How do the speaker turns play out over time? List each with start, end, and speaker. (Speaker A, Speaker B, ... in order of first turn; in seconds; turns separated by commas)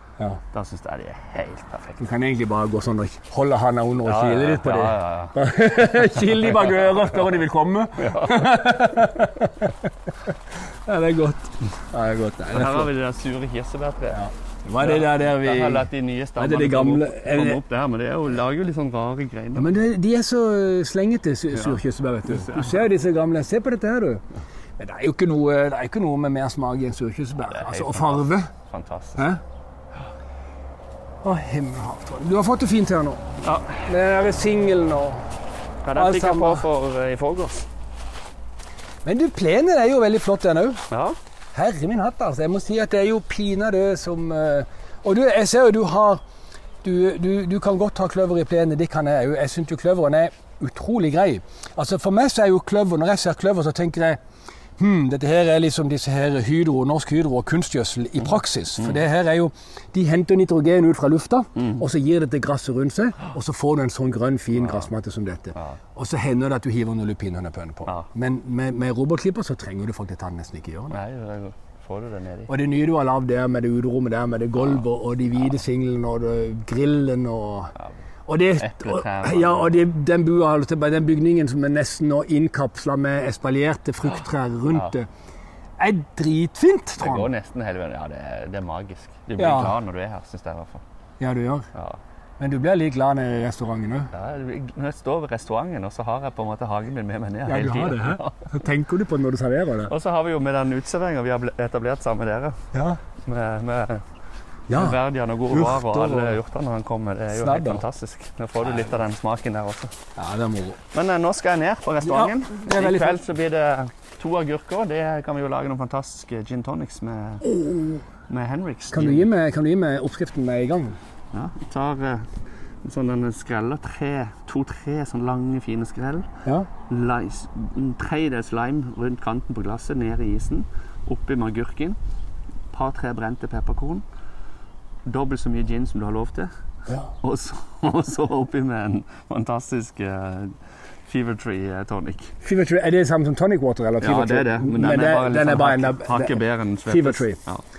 Speaker A: 0.5-2.1, Speaker B: 2.0-9.8, Speaker A: 4.0-5.3, Speaker A: 8.0-8.5, Speaker B: 10.8-12.9, Speaker A: 12.5-14.3, Speaker B: 14.1-17.6, Speaker A: 14.8-19.7, Speaker B: 19.5-24.2, Speaker A: 21.6-22.7, Speaker B: 24.8-28.5, Speaker A: 27.4-29.3, Speaker B: 31.2-33.2, Speaker A: 33.4-33.8, Speaker B: 33.8-35.3, Speaker A: 35.8-37.6, Speaker B: 35.9-36.7, Speaker B: 39.0-40.8, Speaker A: 40.9-41.2, Speaker B: 41.5-46.2, Speaker B: 46.8-54.2, Speaker B: 54.8-71.0, Speaker A: 64.6-64.9, Speaker A: 70.9-72.5, Speaker B: 72.5-77.7, Speaker B: 78.3-85.1, Speaker A: 78.6-79.8, Speaker B: 85.8-87.3, Speaker A: 87.0-90.8, Speaker B: 89.4-89.8, Speaker B: 91.2-91.7, Speaker B: 92.4-94.1, Speaker A: 94.1-98.5, Speaker B: 97.5-99.9, Speaker A: 99.9-102.7, Speaker B: 102.7-103.0, Speaker A: 103.2-104.0, Speaker B: 104.7-106.4, Speaker A: 104.7-109.9, Speaker B: 107.3-107.8, Speaker B: 110.2-110.8, Speaker A: 110.9-117.5, Speaker B: 112.0-113.2, Speaker B: 117.4-118.0, Speaker A: 118.3-119.3, Speaker B: 118.9-121.0, Speaker A: 121.3-122.3, Speaker A: 122.8-126.3, Speaker A: 126.9-132.0, Speaker A: 132.7-134.0, Speaker A: 135.1-136.5, Speaker A: 137.2-142.3, Speaker B: 142.4-147.4, Speaker A: 144.0-147.6